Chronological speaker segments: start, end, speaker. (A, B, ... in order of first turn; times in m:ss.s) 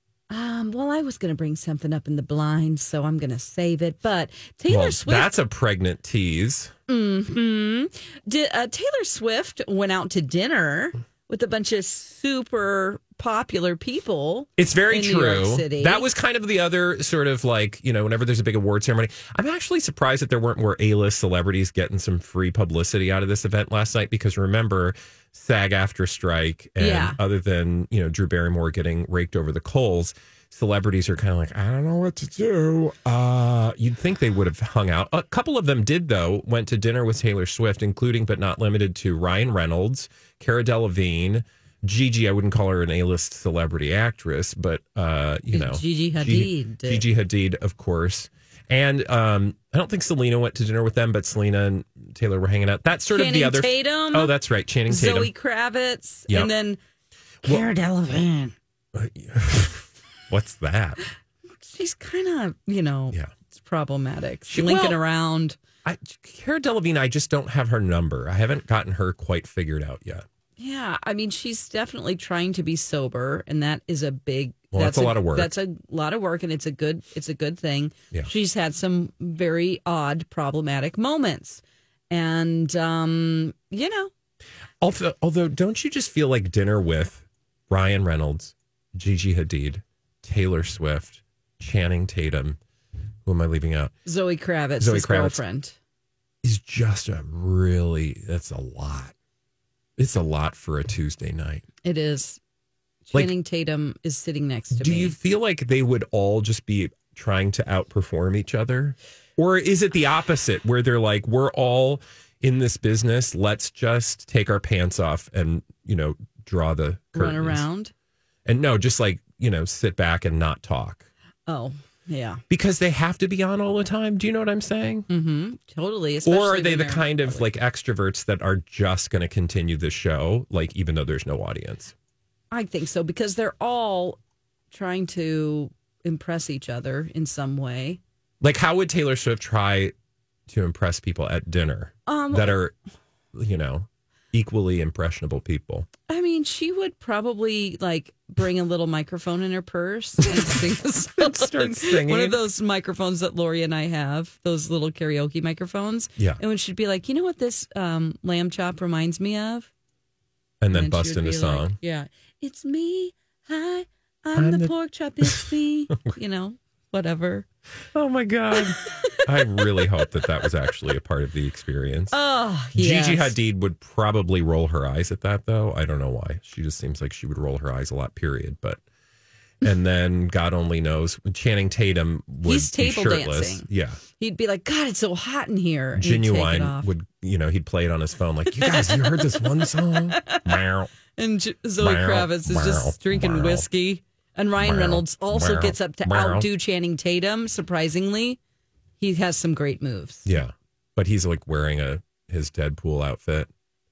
0:00.3-0:05.3 A
0:04.7-0:06.7 B
0:06.9-0:16.0 A
0:14.6-0:55.3 B
0:26.8-0:27.2 A
0:45.5-0:47.1 A
0:53.1-0:54.3 A
0:54.9-0:56.8 A
0:57.4-0:58.5 A
0:58.9-1:01.0 B
1:01.6-1:05.6 A
1:04.5-1:05.0 B
1:05.8-1:10.2 B
1:10.6-1:24.1 A
1:14.7-1:15.5 B
1:24.8-1:32.6 B
1:33.2-1:33.9 B
1:34.1-1:35.8 A
1:34.8-1:35.4 B
1:36.4-1:39.1 B
1:40.0-1:41.6 B
1:41.8-1:42.4 A
1:43.1-1:45.2 A
1:44.7-1:57.6 B
1:57.1-1:57.9 A
1:58.5-2:01.1 B
2:01.5-2:02.4 A
2:02.5-2:05.1 B
2:05.1-2:07.5 A
2:06.2-2:11.9 B
2:12.5-2:14.2 A
2:14.7-2:18.0 A
2:18.4-2:19.9 B
2:20.5-2:22.8 B
2:22.1-2:22.6 A
2:23.3-2:25.9 B
2:26.1-2:39.7 A
2:30.3-2:30.6 B
2:31.2-2:32.4 B
2:40.6-2:41.8 B
2:40.7-2:47.5 A
2:44.4-2:46.1 B
2:47.9-2:52.2 B
2:48.6-2:50.0 A
2:52.1-2:53.4 A
2:52.7-2:58.8 B
2:59.6-3:04.0 B
3:02.4-3:03.6 A
3:04.2-3:06.9 A
3:06.0-3:10.9 B
3:08.6-3:10.5 A
3:11.2-3:18.4 A
3:11.8-3:13.7 B
3:14.6-3:16.5 B
3:19.0-3:20.2 A
3:20.2-3:23.5 B